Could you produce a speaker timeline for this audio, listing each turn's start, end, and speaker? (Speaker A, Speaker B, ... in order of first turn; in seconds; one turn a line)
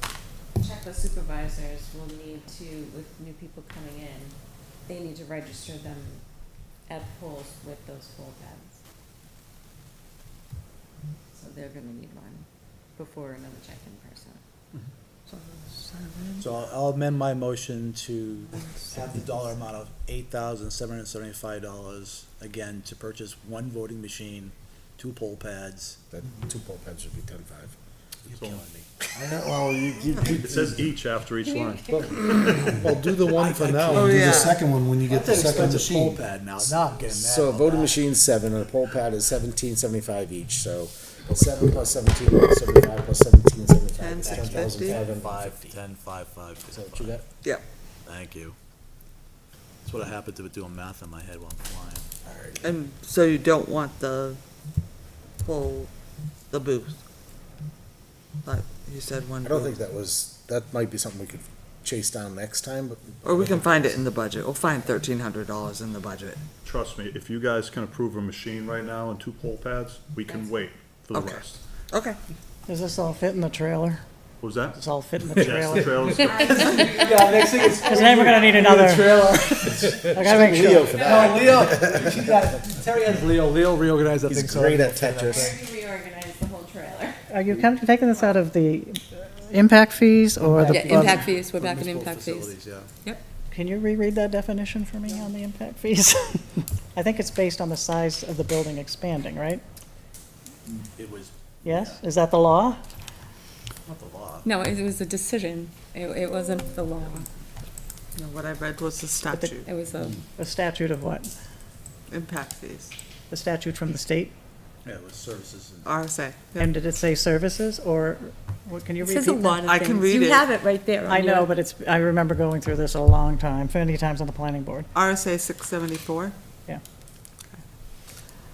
Speaker A: 0.6-4.3
Speaker A: 4.9-6.2
Speaker A: 6.9-8.8
Speaker A: 11.3-14.4
Speaker B: 15.3-16.4
Speaker C: 16.4-26.3
Speaker B: 18.6-18.9
Speaker D: 26.1-27.8
Speaker C: 28.2-28.9
Speaker E: 28.3-28.6
Speaker D: 29.1-30.9
Speaker E: 30.3-32.2
Speaker F: 31.5-32.3
Speaker G: 32.7-36.2
Speaker C: 33.3-34.5
Speaker B: 34.0-34.6
Speaker C: 35.0-38.1
Speaker D: 35.2-35.9
Speaker D: 36.6-45.6
Speaker B: 44.0-45.0
Speaker C: 44.2-47.2
Speaker D: 46.7-47.2
Speaker C: 48.0-48.5
Speaker C: 49.8-52.1
Speaker D: 52.2-52.8
Speaker B: 52.6-54.4
Speaker B: 55.4-55.9
Speaker B: 56.5-57.0
Speaker B: 58.4-59.8
Speaker D: 59.4-64.0
Speaker B: 63.2-66.4
Speaker E: 66.6-71.6
Speaker A: 70.3-70.6
Speaker B: 71.2-72.2
Speaker H: 72.7-74.0
Speaker E: 74.4-76.8
Speaker H: 74.8-76.1
Speaker C: 76.0-80.1
Speaker A: 76.1-77.7
Speaker H: 77.2-81.2
Speaker D: 79.7-82.4
Speaker C: 80.8-85.6
Speaker D: 84.3-85.6
Speaker A: 85.3-87.2
Speaker H: 87.3-91.2
Speaker C: 90.4-92.9
Speaker F: 90.7-93.2
Speaker H: 93.5-99.6
Speaker C: 101.0-102.0
Speaker H: 101.6-102.8
Speaker C: 103.8-104.5
Speaker F: 104.4-107.3
Speaker B: 108.1-109.7
Speaker F: 109.6-110.2
Speaker H: 110.4-111.3
Speaker B: 112.1-112.9
Speaker H: 113.3-114.3
Speaker C: 114.8-115.9
Speaker B: 115.8-116.7
Speaker H: 116.6-119.7
Speaker B: 119.0-120.5
Speaker F: 119.7-121.5
Speaker H: 121.1-124.9
Speaker B: 124.9-126.4